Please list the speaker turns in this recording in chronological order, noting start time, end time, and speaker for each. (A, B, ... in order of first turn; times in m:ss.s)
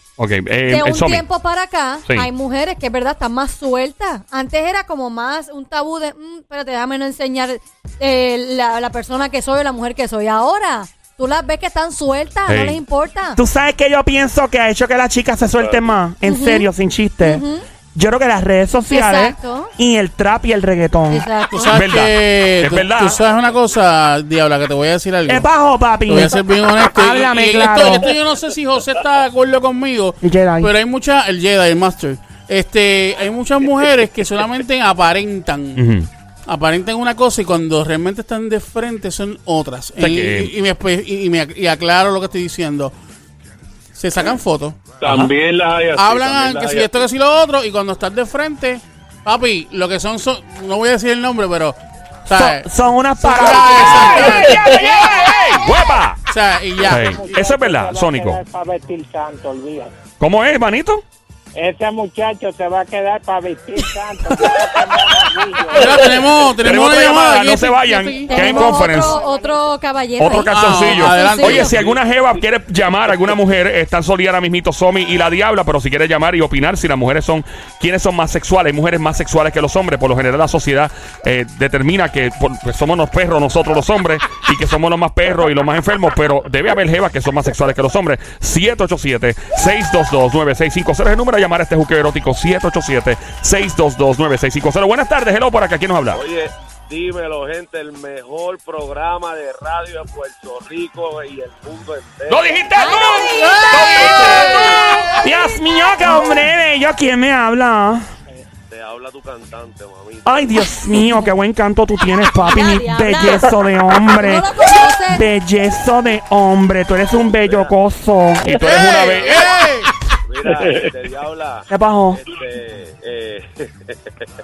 0:00.2-0:01.2 A
0:00.7-0:13.4 B
0:12.5-0:12.8 A
0:13.4-0:17.4 C
0:16.2-0:16.6 B
0:17.2-0:17.6 B
0:17.9-0:21.2 C
0:18.9-0:19.7 B
0:21.1-0:21.7 B
0:21.5-0:25.5 D
0:21.7-0:23.2 A
0:25.3-0:28.1 C
0:26.0-0:35.8 D
0:30.2-0:30.7 C
0:35.8-0:36.1 A
0:36.5-0:42.9 D
0:40.0-0:40.5 A
0:43.9-0:44.9 D
0:45.0-0:47.0 E
0:45.0-0:45.3 A
0:45.9-0:52.7 D
0:52.3-0:54.3 C
0:53.2-0:55.4 D
0:53.4-0:56.2 A
0:56.3-0:57.2 D
0:56.8-0:59.9 F
0:56.9-0:58.4 A
1:00.2-1:01.0 A
1:01.5-1:06.2 F
1:05.7-1:08.8 D
1:06.6-1:09.2 A
1:08.2-1:11.7 B
1:08.3-1:09.6 F
1:10.2-1:36.2 A
1:10.5-1:11.8 D
1:11.7-1:12.0 E
1:36.1-1:42.6 G
1:42.3-1:44.8 A
1:42.8-1:46.4 B
1:45.2-1:48.0 C
1:48.7-1:50.6 G
1:50.2-1:58.6 C
1:52.4-1:53.5 B
1:54.1-1:55.3 B
1:57.4-1:57.7 G
1:58.4-1:59.4 A
1:58.6-1:59.9 D
2:00.2-2:04.3 G
2:00.5-2:00.9 E
2:01.7-2:02.2 C